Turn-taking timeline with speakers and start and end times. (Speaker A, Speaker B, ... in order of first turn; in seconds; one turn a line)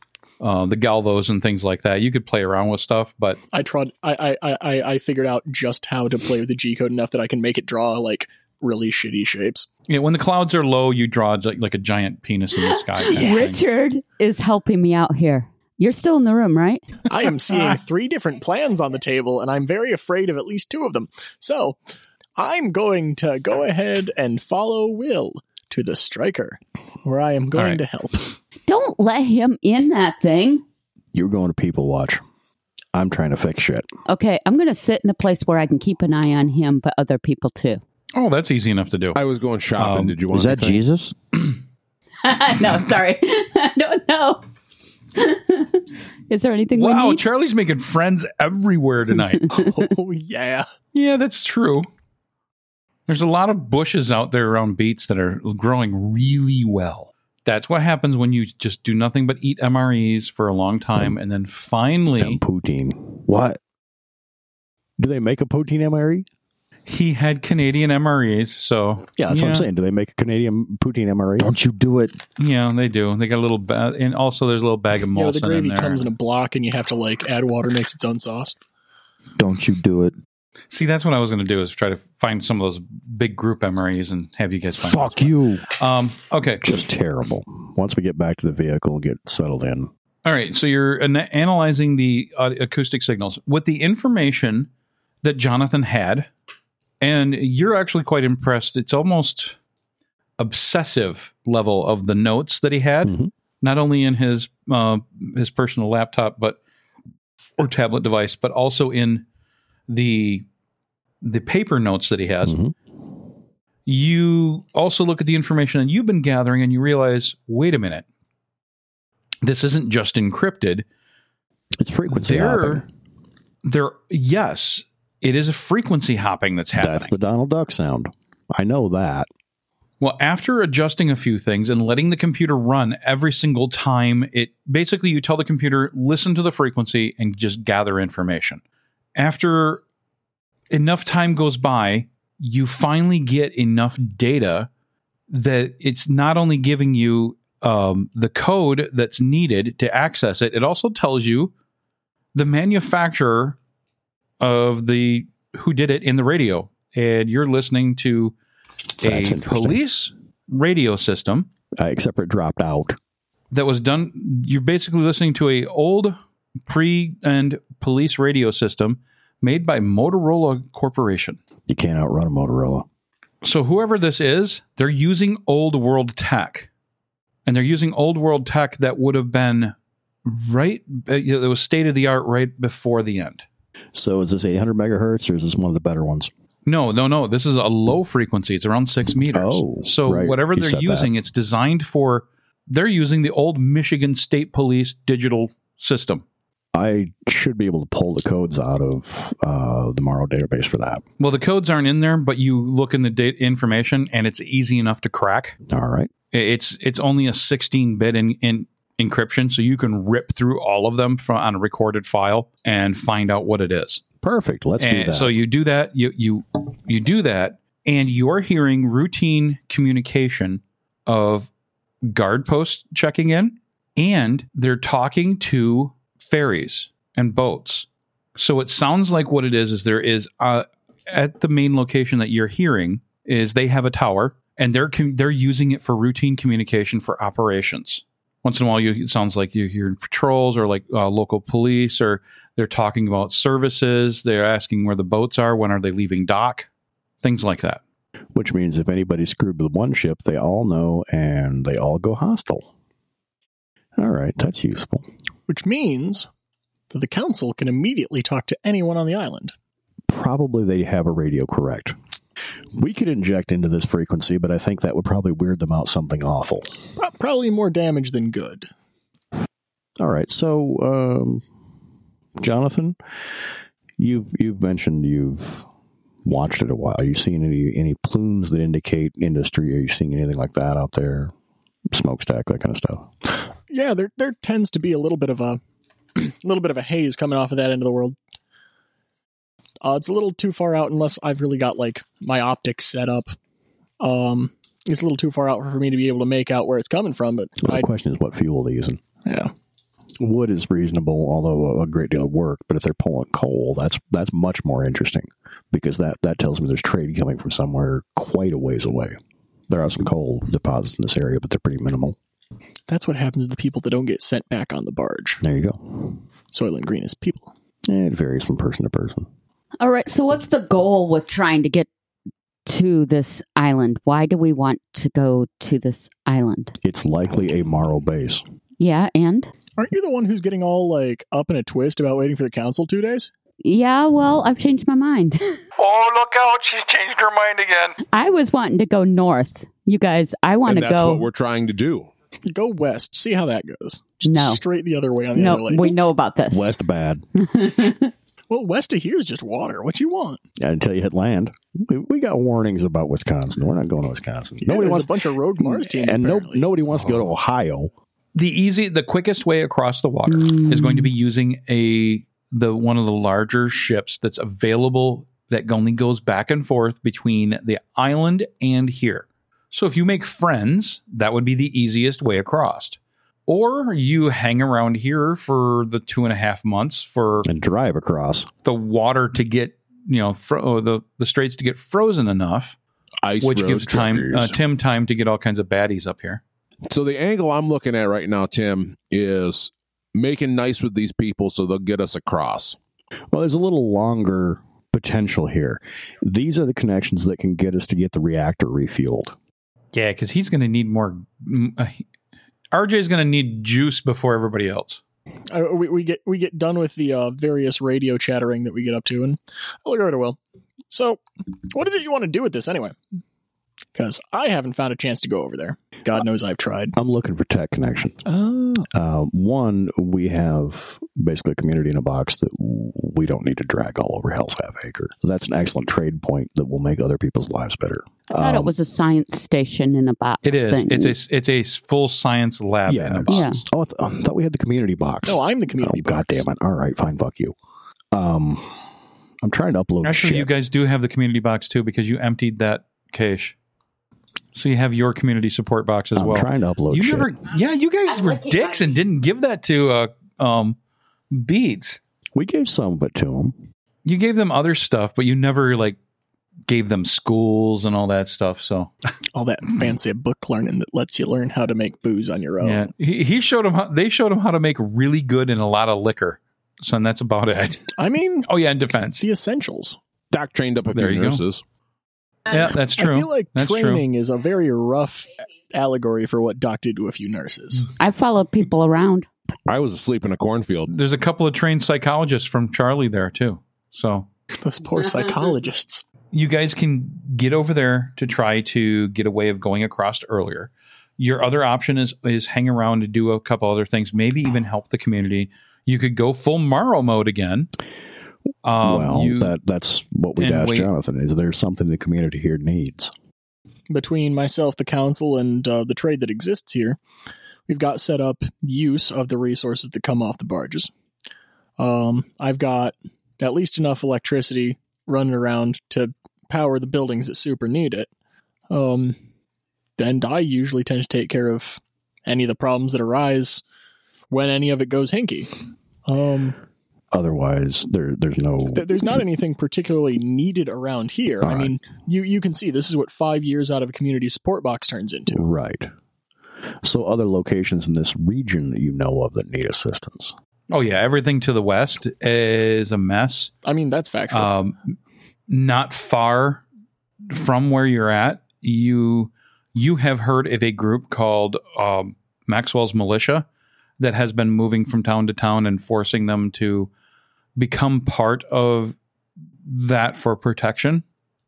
Speaker A: 0.4-3.4
Speaker B: 3.5-9.7
Speaker A: 9.9-13.8
Speaker C: 12.7-16.9
Speaker B: 17.1-21.8
Speaker B: 22.4-28.3
Speaker A: 27.5-27.8
Speaker C: 28.7-30.6
Speaker D: 31.1-32.2
Speaker D: 32.9-33.9
Speaker C: 34.1-37.8
Speaker A: 38.1-39.2
Speaker E: 39.1-40.8
Speaker A: 39.8-40.2
Speaker F: 40.3-41.1
Speaker C: 42.2-44.4
Speaker C: 45.2-47.2
Speaker A: 46.7-49.5
Speaker B: 49.5-50.7
Speaker A: 50.9-51.9
Speaker A: 53.1-62.4
Speaker D: 62.2-63.6
Speaker D: 65.0-66.3
Speaker A: 66.9-69.7
Speaker D: 69.2-71.5
Speaker F: 71.4-72.2
Speaker A: 72.4-76.1
Speaker B: 75.1-78.5
Speaker F: 79.4-80.1
Speaker A: 80.7-86.6
Speaker D: 84.8-85.6
Speaker D: 86.6-89.9
Speaker A: 90.2-94.7
Speaker A: 95.2-96.3
Speaker A: 97.0-99.6
Speaker A: 100.4-106.6
Speaker D: 103.0-103.3
Speaker A: 107.6-109.2
Speaker A: 109.9-110.5
Speaker A: 111.2-112.6
Speaker D: 112.4-112.7
Speaker A: 113.9-118.0
Speaker A: 119.4-120.8
Speaker D: 121.8-122.9
Speaker A: 122.1-122.8
Speaker A: 123.7-127.1
Speaker D: 126.8-129.3
Speaker A: 130.0-138.6
Speaker A: 139.2-139.8
Speaker A: 140.7-144.7
Speaker A: 145.3-151.5
Speaker A: 152.3-153.6
Speaker A: 154.4-158.3
Speaker D: 159.0-159.8
Speaker A: 159.0-161.5
Speaker D: 161.8-163.0
Speaker A: 163.5-171.4
Speaker D: 171.7-172.9
Speaker A: 173.4-176.7
Speaker A: 177.5-179.7
Speaker A: 180.2-183.4
Speaker D: 183.9-186.3
Speaker A: 186.7-196.2
Speaker D: 189.3-191.1
Speaker D: 196.7-201.0
Speaker A: 201.2-205.6
Speaker D: 205.7-206.1
Speaker A: 206.3-214.0
Speaker D: 214.2-215.3
Speaker A: 214.8-221.5
Speaker A: 222.1-246.7
Speaker A: 247.2-247.8
Speaker D: 248.3-252.7
Speaker D: 254.0-255.1
Speaker B: 255.5-256.3
Speaker B: 256.9-259.5
Speaker D: 260.1-261.9
Speaker D: 262.8-266.7
Speaker B: 267.0-268.7
Speaker D: 270.0-271.4
Speaker D: 272.4-273.0
Speaker D: 274.0-275.7
Speaker D: 276.2-281.3
Speaker D: 281.9-283.1
Speaker B: 283.7-285.6
Speaker B: 286.1-288.2
Speaker B: 289.8-293.4
Speaker B: 294.0-297.9
Speaker D: 297.6-299.0
Speaker B: 299.2-299.5
Speaker D: 300.2-309.2
Speaker D: 309.7-312.2
Speaker B: 312.9-315.4
Speaker D: 315.4-316.2
Speaker B: 316.5-317.5
Speaker D: 317.9-319.3
Speaker C: 319.8-321.9
Speaker C: 322.7-326.8
Speaker D: 326.8-328.4
Speaker C: 328.8-329.5
Speaker B: 329.8-333.3
Speaker C: 333.6-335.6
Speaker A: 335.8-338.0
Speaker C: 338.1-341.2
Speaker E: 340.7-342.1
Speaker B: 342.5-346.0
Speaker C: 344.2-344.6
Speaker C: 345.4-346.7
Speaker D: 346.5-347.2
Speaker C: 347.4-348.1
Speaker B: 348.5-350.4
Speaker D: 350.6-357.9
Speaker B: 354.6-356.7
Speaker A: 358.3-377.5
Speaker C: 360.3-361.1
Speaker D: 377.4-378.5
Speaker A: 378.6-382.8
Speaker E: 383.2-384.6
Speaker A: 383.4-386.4
Speaker E: 386.9-392.8
Speaker D: 393.3-399.4
Speaker A: 399.9-402.0
Speaker A: 402.7-405.0
Speaker B: 405.5-413.0
Speaker B: 413.9-417.0
Speaker D: 417.0-418.2
Speaker B: 418.2-418.9
Speaker D: 418.9-428.7
Speaker C: 428.3-431.1
Speaker A: 430.4-433.6
Speaker D: 432.9-437.6
Speaker C: 433.3-433.6
Speaker B: 435.3-436.4
Speaker D: 438.1-438.8
Speaker D: 439.4-440.5
Speaker A: 440.0-443.6
Speaker A: 444.6-450.8
Speaker D: 446.2-447.3
Speaker A: 451.3-452.0
Speaker D: 452.4-453.6
Speaker A: 454.1-456.0
Speaker A: 456.7-458.9
Speaker B: 459.3-462.9
Speaker A: 462.6-467.9
Speaker B: 468.0-468.5
Speaker A: 468.5-469.3
Speaker B: 469.2-470.0
Speaker E: 470.3-471.6
Speaker A: 470.9-471.4
Speaker A: 472.5-474.1
Speaker B: 472.6-477.9
Speaker C: 478.0-479.3
Speaker E: 479.7-480.9
Speaker A: 480.9-484.3
Speaker B: 484.6-486.0
Speaker A: 486.3-497.7
Speaker A: 498.6-499.6
Speaker D: 498.8-503.1
Speaker A: 500.4-500.9
Speaker B: 503.9-507.0
Speaker B: 507.7-510.9
Speaker B: 511.8-518.1
Speaker B: 518.7-519.2
Speaker B: 520.0-523.6
Speaker B: 524.3-525.5
Speaker B: 526.0-526.6
Speaker D: 527.1-529.1
Speaker B: 528.7-535.5
Speaker D: 531.4-531.8
Speaker D: 535.3-535.9
Speaker D: 536.8-540.3
Speaker A: 540.7-543.5
Speaker B: 543.6-544.5
Speaker A: 544.3-544.8
Speaker A: 545.5-546.6
Speaker A: 547.3-553.5
Speaker A: 554.0-556.9
Speaker A: 557.6-559.0
Speaker A: 559.6-561.0